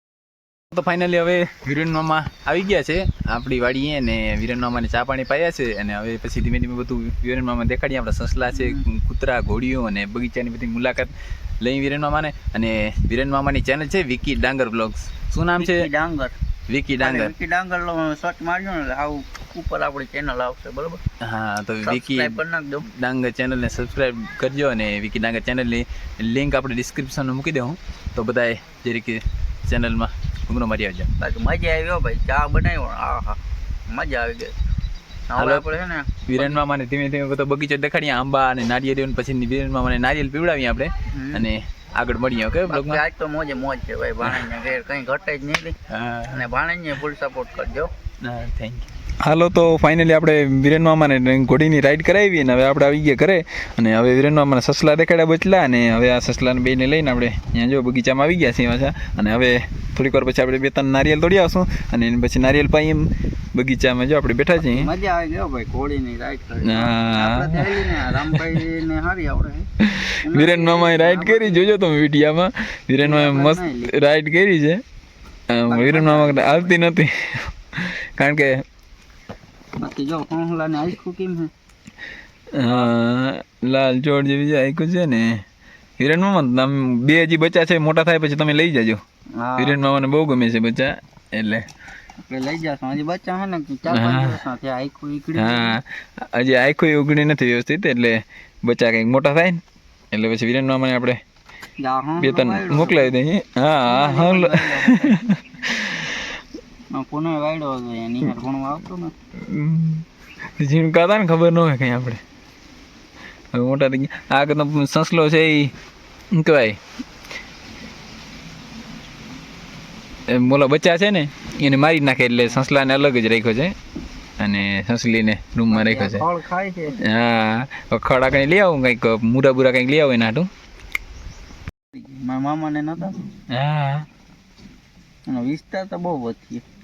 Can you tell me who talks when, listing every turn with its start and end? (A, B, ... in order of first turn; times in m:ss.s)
0:00.7-0:15.9 A
0:08.5-0:08.8 B
0:15.6-0:16.3 B
0:16.7-0:17.3 A
0:17.0-0:21.0 B
0:21.2-0:31.1 A
0:21.8-0:22.8 B
0:31.2-0:34.5 B
0:35.3-0:36.6 B
0:35.4-0:35.6 A
0:36.3-0:43.0 A
0:41.1-0:41.5 B
0:42.7-0:45.8 B
0:44.2-0:44.5 A
0:45.9-0:46.4 A
0:46.3-0:47.9 B
0:48.2-1:04.9 A
1:04.6-1:09.7 B
1:06.6-1:08.6 A
1:09.8-1:14.8 A
1:10.2-1:11.8 B
1:13.0-1:13.9 B
1:15.5-1:18.6 A
1:15.7-1:16.9 B
1:19.8-1:21.5 B
1:22.5-1:25.4 A
1:22.6-1:22.9 B
1:26.0-1:29.0 A
1:29.4-1:29.8 B
1:29.6-1:31.7 A
1:32.2-1:35.8 B
1:33.9-1:34.4 A
1:35.4-1:39.6 A
1:40.1-1:41.2 A
1:41.8-1:43.2 B
1:42.2-1:46.1 A
1:43.9-1:45.2 B
1:46.9-1:49.1 B
1:49.5-1:50.0 A
1:50.6-1:52.2 A
1:53.5-1:55.7 A
1:56.3-1:56.8 A
2:00.3-2:03.7 A
2:04.4-2:06.2 A
2:05.7-2:07.0 B
2:07.0-2:10.5 A
2:11.9-2:13.2 B
2:13.5-2:14.0 A
2:15.3-2:16.6 B